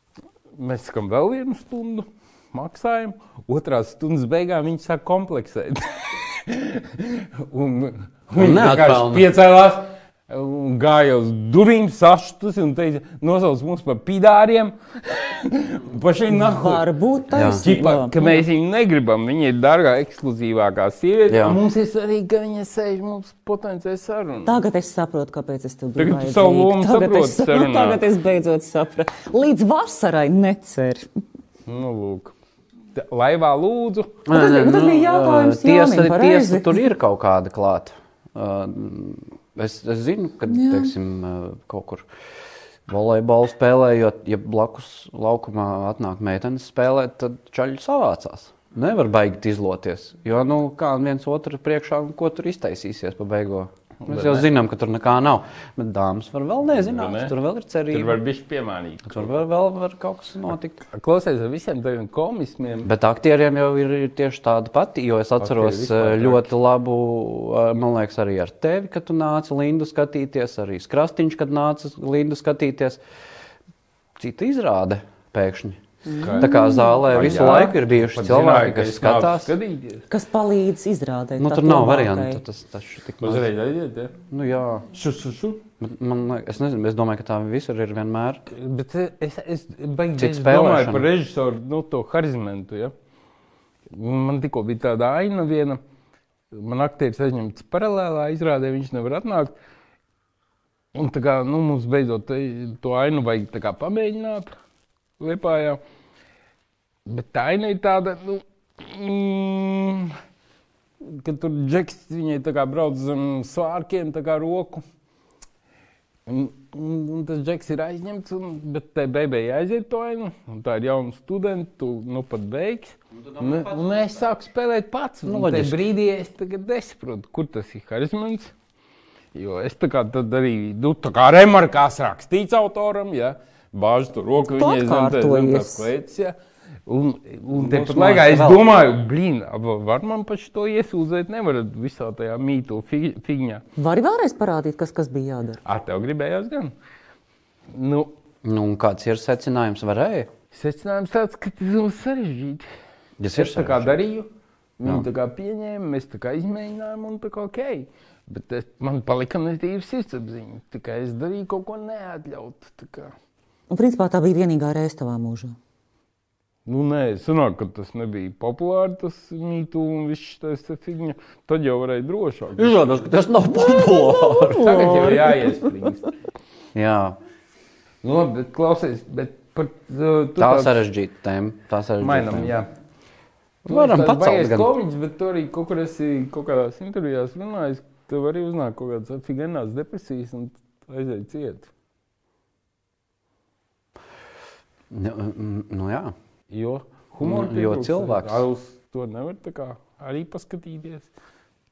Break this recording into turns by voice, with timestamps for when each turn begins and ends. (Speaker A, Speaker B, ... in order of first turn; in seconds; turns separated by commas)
Speaker A: 0.5-16.8, Speaker B: 8.3-9.3, Speaker C: 16.3-18.4, Speaker B: 17.3-17.6, Speaker A: 17.6-24.6, Speaker B: 21.3-21.6, Speaker C: 24.4-31.1, Speaker A: 26.0-28.0, Speaker A: 31.7-32.3, Speaker A: 32.9-34.2, Speaker B: 34.2-42.1, Speaker C: 34.3-36.8, Speaker C: 40.5-40.9, Speaker B: 42.9-58.2, Speaker A: 54.0-54.5, Speaker A: 56.8-57.3, Speaker A: 57.9-59.3, Speaker B: 59.1-60.8, Speaker A: 60.9-62.9, Speaker B: 62.8-73.0, Speaker A: 65.4-66.5, Speaker B: 74.2-75.8, Speaker C: 76.1-77.5, Speaker A: 76.2-80.0, Speaker B: 76.4-79.5, Speaker C: 80.1-82.4, Speaker B: 81.4-83.5, Speaker A: 83.2-84.1, Speaker B: 84.3-84.9, Speaker A: 84.9-85.6, Speaker B: 85.8-88.4, Speaker A: 88.5-92.9, Speaker B: 90.2-91.1, Speaker A: 93.9-95.8, Speaker A: 96.5-99.5, Speaker A: 100.9-104.5, Speaker A: 105.2-105.8, Speaker A: 107.0-110.2, Speaker A: 111.0-114.8, Speaker A: 116.2-128.5, Speaker B: 125.2-125.8, Speaker A: 129.3-143.6, Speaker C: 134.6-135.9, Speaker B: 137.5-138.6, Speaker C: 143.8-145.6, Speaker A: 145.6-146.7, Speaker A: 147.7-148.1, Speaker B: 148.4-150.3, Speaker A: 150.5-152.7, Speaker B: 153.2-154.0, Speaker A: 153.3-154.3, Speaker A: 154.8-163.1, Speaker C: 163.7-165.5, Speaker A: 166.7-172.7, Speaker B: 172.6-174.9, Speaker C: 173.5-175.7, Speaker A: 174.5-176.1, Speaker B: 176.7-177.2, Speaker A: 178.0-180.8, Speaker B: 180.4-182.5, Speaker A: 182.0-182.7, Speaker B: 183.6-184.7, Speaker A: 183.7-191.7, Speaker B: 194.9-196.1, Speaker A: 196.5-201.1, Speaker B: 197.2-198.4